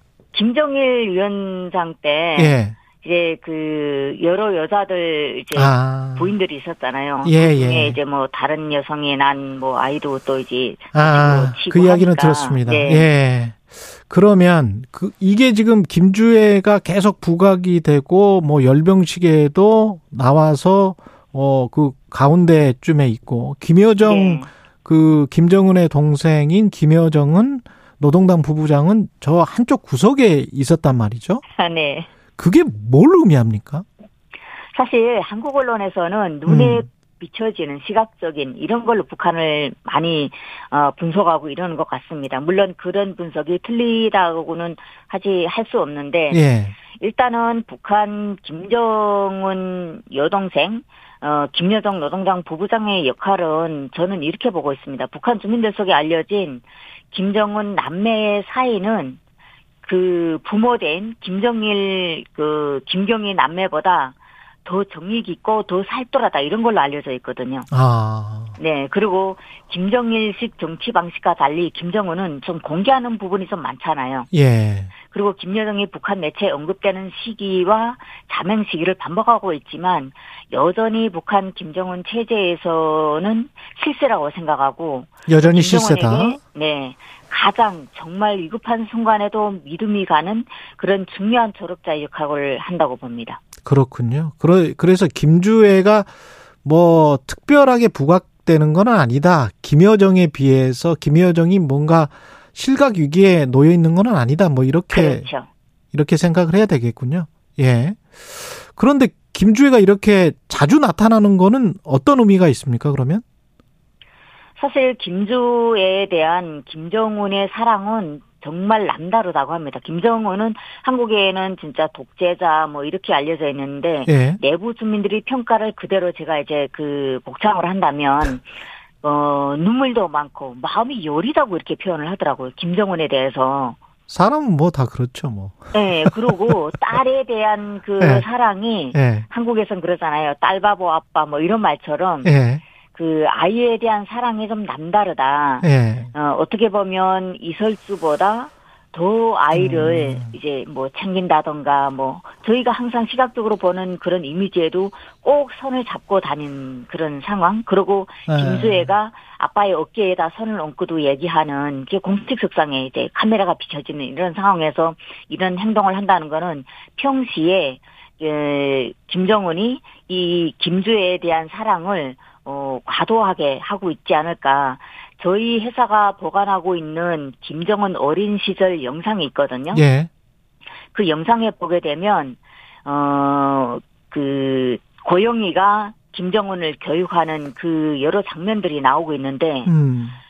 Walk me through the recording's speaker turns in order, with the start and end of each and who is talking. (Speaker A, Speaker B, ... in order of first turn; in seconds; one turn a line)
Speaker A: 0.3-13.1
Speaker B: 2.4-2.8
Speaker B: 5.5-6.3
Speaker B: 7.2-8.0
Speaker B: 10.9-31.4
Speaker A: 24.0-24.5
Speaker A: 31.6-32.1
Speaker B: 32.4-33.9
Speaker A: 34.7-46.4
Speaker B: 36.5-36.9
Speaker B: 46.3-46.7
Speaker A: 47.0-59.2
Speaker A: 59.8-67.7
Speaker B: 67.7-68.6
Speaker A: 68.6-74.3
Speaker B: 74.3-74.9
Speaker A: 75.1-93.4
Speaker B: 85.3-86.4
Speaker B: 93.7-96.1
Speaker B: 96.6-105.3
Speaker A: 104.9-105.5
Speaker B: 105.9-113.2
Speaker A: 114.6-128.5
Speaker B: 124.1-124.4
Speaker A: 129.0-133.8
Speaker B: 134.1-136.4
Speaker A: 135.7-142.3
Speaker B: 138.9-139.3
Speaker B: 142.2-142.6
Speaker A: 142.9-179.8
Speaker B: 145.6-146.1
Speaker B: 149.5-150.3
Speaker B: 158.3-158.9
Speaker B: 179.7-180.1
Speaker A: 180.9-189.7
Speaker B: 189.7-190.2